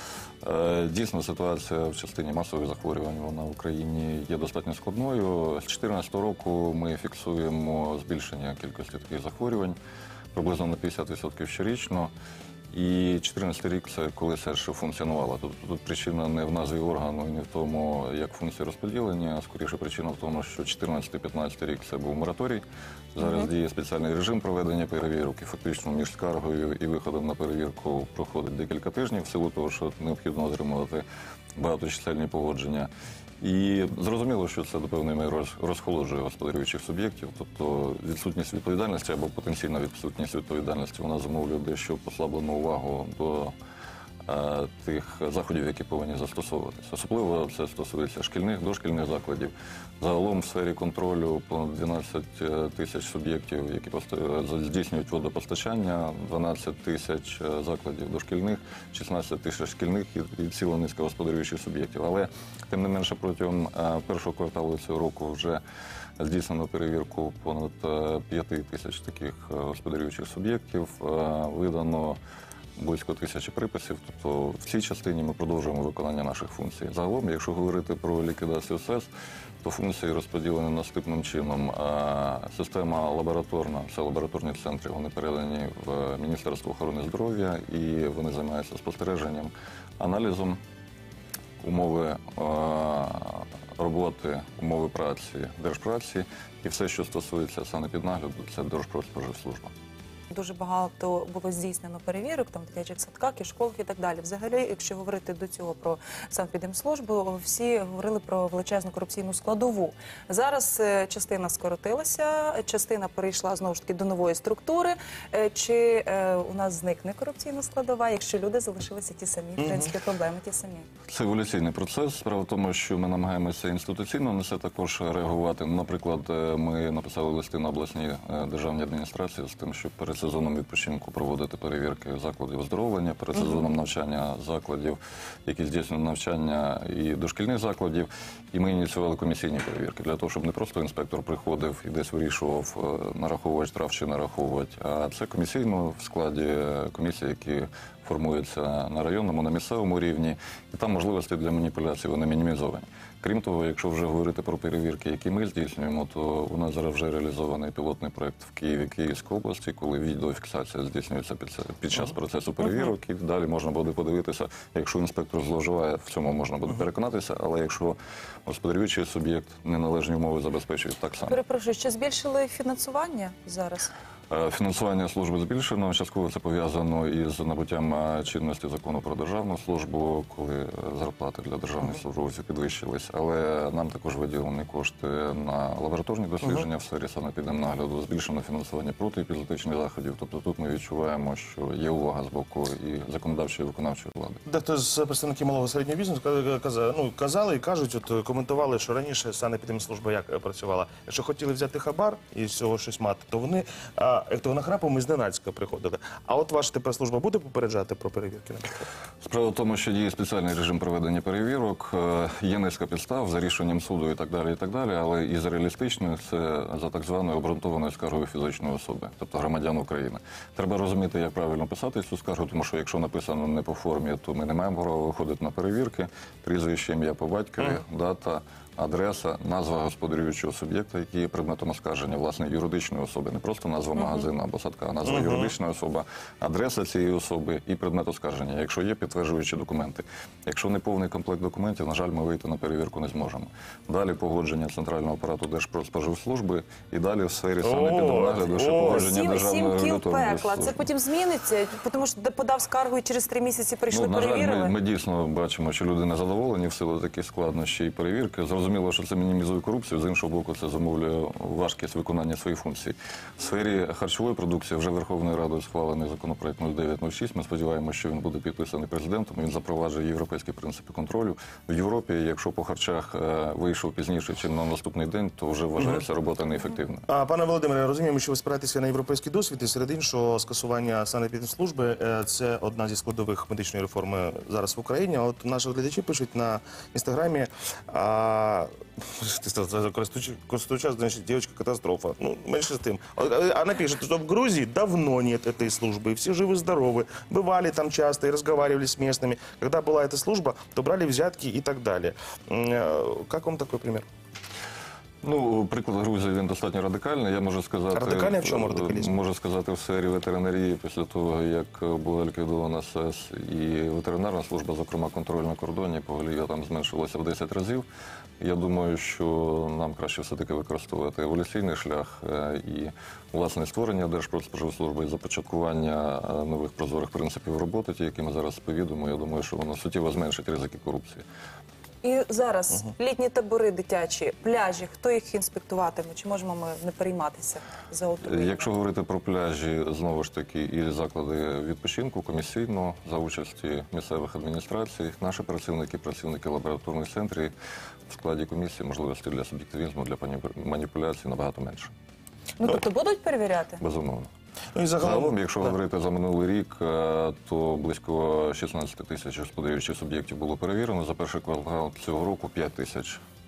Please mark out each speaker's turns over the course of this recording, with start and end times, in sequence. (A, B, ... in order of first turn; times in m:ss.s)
0:00.4-0:09.8 A
0:10.3-0:12.1 A
0:12.7-0:22.6 A
0:23.1-0:31.0 A
0:23.2-0:23.5 B
0:31.6-0:32.9 A
0:33.4-0:43.5 A
0:44.2-1:05.6 A
1:06.2-1:12.2 A
1:12.8-1:19.1 A
1:19.6-1:30.6 A
1:31.6-1:39.7 A
1:40.3-2:00.9 B
1:59.6-1:59.9 C
2:01.1-2:51.4 A
2:51.3-2:53.9 B
2:54.3-3:14.4 A
3:14.4-3:28.8 C
3:29.2-4:10.9 A
3:55.0-3:55.5 C
4:07.6-4:09.1 C
4:08.8-4:14.7 B
4:13.9-4:37.0 A
4:35.8-4:36.0 C
4:37.1-5:04.0 C
5:05.2-5:17.8 A
5:07.9-5:09.2 C
5:18.4-5:31.2 A
5:32.0-5:38.7 B
5:38.2-5:47.5 A
5:48.1-5:51.9 A
5:52.6-5:53.8 B
5:53.8-5:54.3 A
5:54.7-5:55.7 C
5:55.0-6:03.2 A